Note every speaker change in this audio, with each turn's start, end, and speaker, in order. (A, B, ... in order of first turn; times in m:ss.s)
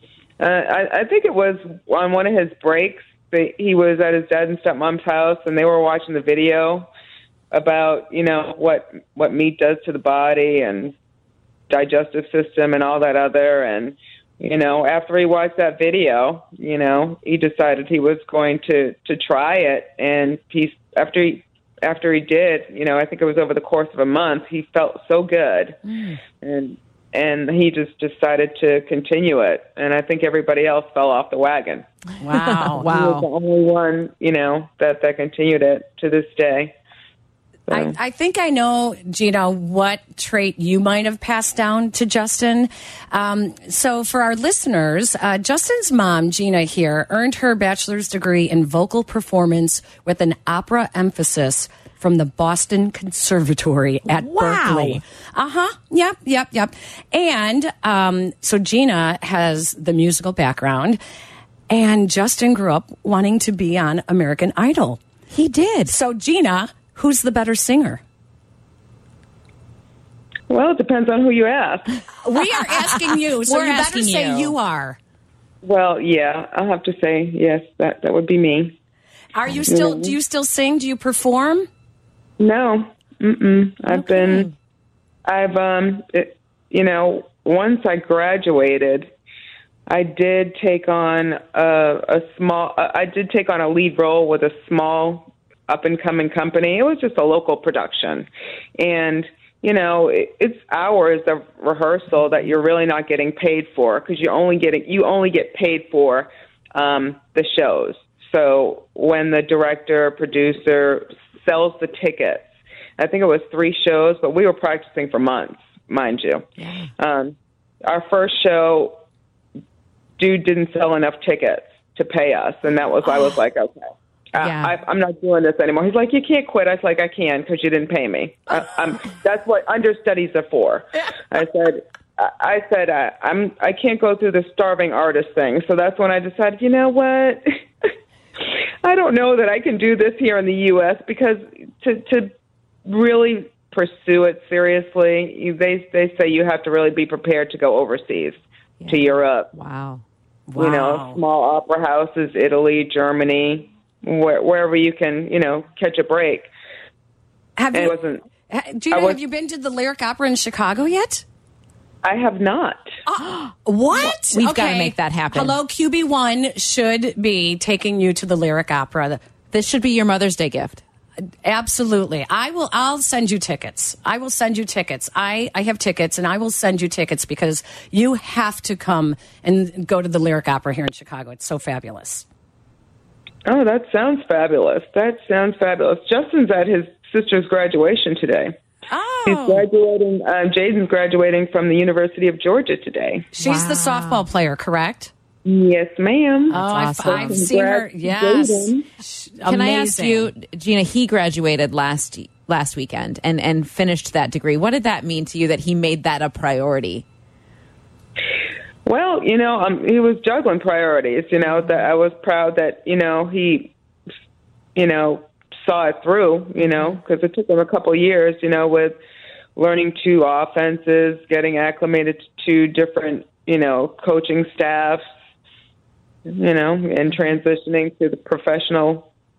0:00.4-0:06.9 A
0:07.5-0:10.9 A
0:11.7-0:25.8 A
0:25.9-0:26.2 B
0:26.4-0:31.8 A
0:32.2-0:32.9 C
0:32.3-0:33.3 B
0:32.8-0:36.7 A
0:37.7-0:38.0 A
0:37.7-1:01.0 C
0:54.1-0:55.0 B
1:01.7-1:05.0 C
1:05.3-1:05.9 B
1:05.9-1:08.0 C
1:10.5-1:11.9 A
1:12.2-1:15.0 C
1:13.4-1:14.5 B
1:15.6-1:18.8 A
1:19.3-1:21.7 C
1:19.7-1:20.1 A
1:22.4-1:24.5 A
1:23.9-1:24.5 B
1:25.2-1:29.1 A
1:29.9-1:52.4 A
1:53.0-1:56.4 A
1:56.6-1:56.9 B
1:57.0-1:59.0 A
2:00.2-2:17.5 A
2:04.4-2:04.7 B
2:18.8-2:22.3 A
2:22.8-2:29.5 A
2:28.8-2:30.0 B
2:30.5-2:31.2 C
2:30.6-2:36.5 A
2:37.6-2:37.9 C
2:37.7-2:38.2 A
2:38.5-2:41.2 C
2:38.9-2:39.2 A
2:42.0-2:42.9 A
2:43.1-2:49.2 C
2:43.2-2:45.6 B
2:49.5-2:50.8 B
2:51.4-3:02.2 C
3:03.4-3:08.5 A
3:08.9-3:09.6 C
3:09.2-3:13.3 A
3:13.3-3:15.1 C
3:13.4-3:14.2 B
3:15.4-3:18.8 A
3:16.5-3:17.5 B
3:16.5-3:20.3 C
3:19.4-3:27.0 B
3:28.8-3:33.7 A
3:34.8-3:39.0 A
3:39.6-3:45.0 A
3:46.3-3:49.1 A
3:47.1-3:47.4 B